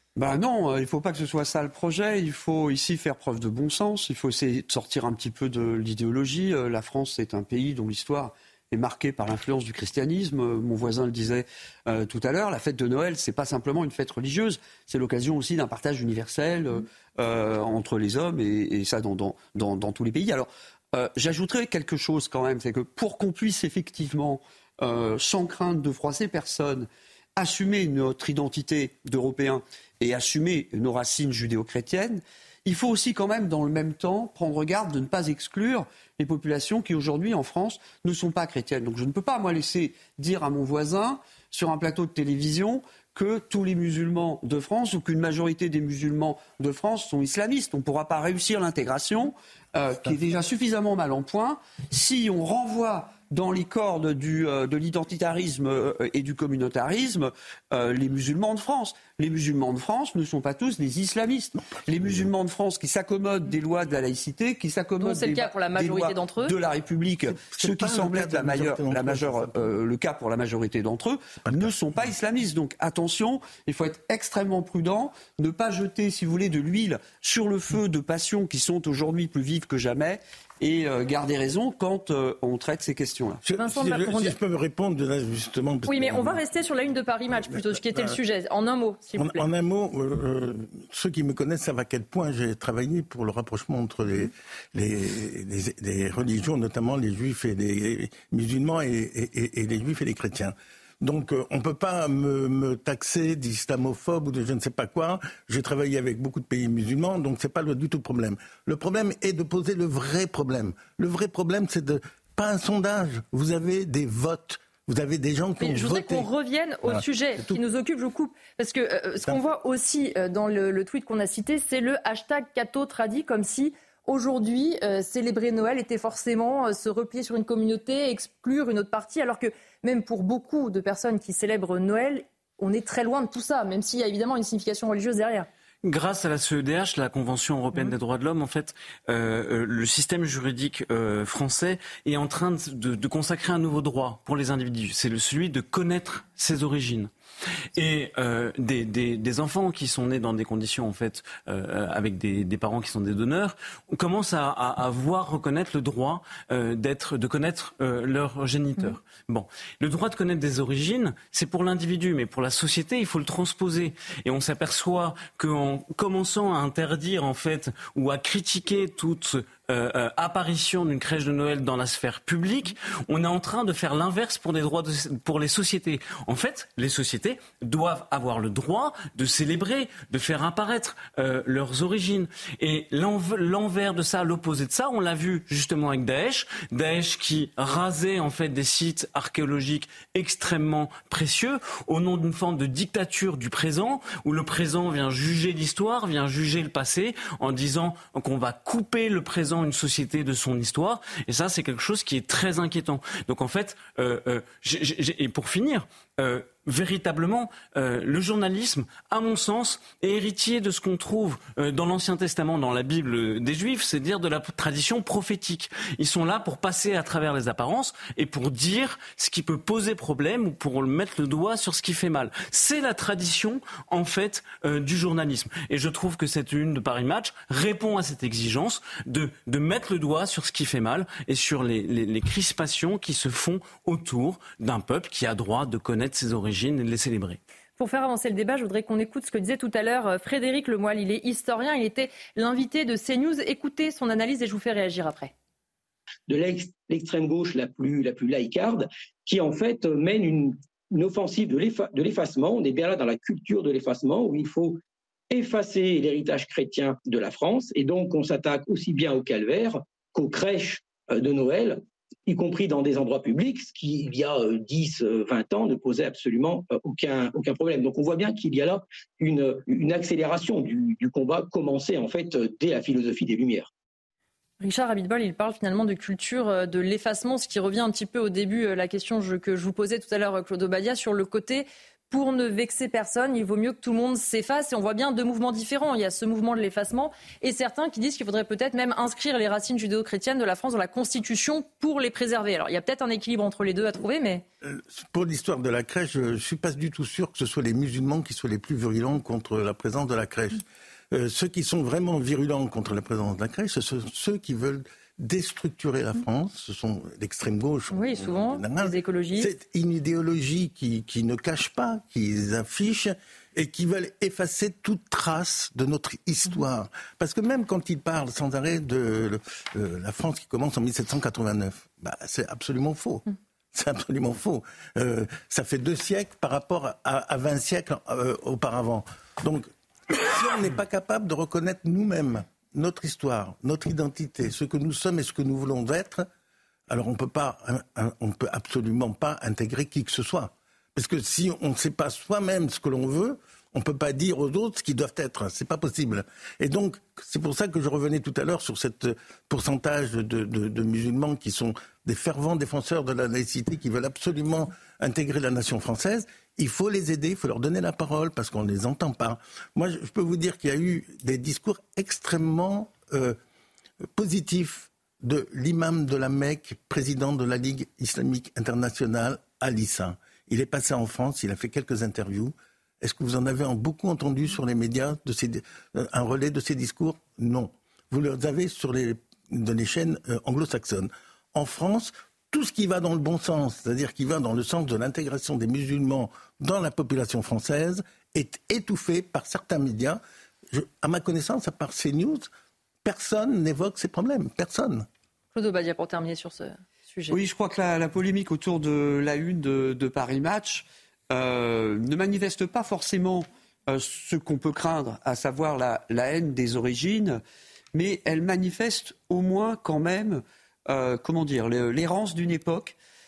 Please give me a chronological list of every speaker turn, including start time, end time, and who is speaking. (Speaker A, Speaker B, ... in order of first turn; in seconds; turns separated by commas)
Speaker A: 0.2-83.4, Speaker B: 65.0-66.5, Speaker C: 67.4-69.7, Speaker C: 71.5-72.0, Speaker C: 83.5-86.4, Speaker B: 83.6-84.3, Speaker B: 85.9-89.4, Speaker C: 87.4-88.2, Speaker C: 89.2-116.3, Speaker B: 115.6-135.5, Speaker C: 116.8-117.6, Speaker D: 135.8-147.1, Speaker D: 147.8-237.4, Speaker B: 237.8-245.3, Speaker E: 246.3-254.8, Speaker E: 255.3-273.7, Speaker B: 274.6-294.4, Speaker C: 294.6-336.3, Speaker B: 307.9-309.5, Speaker C: 336.9-363.4, Speaker C: 364.2-392.5, Speaker C: 393.0-395.1, Speaker B: 395.5-397.4, Speaker A: 397.3-407.4, Speaker A: 407.9-412.9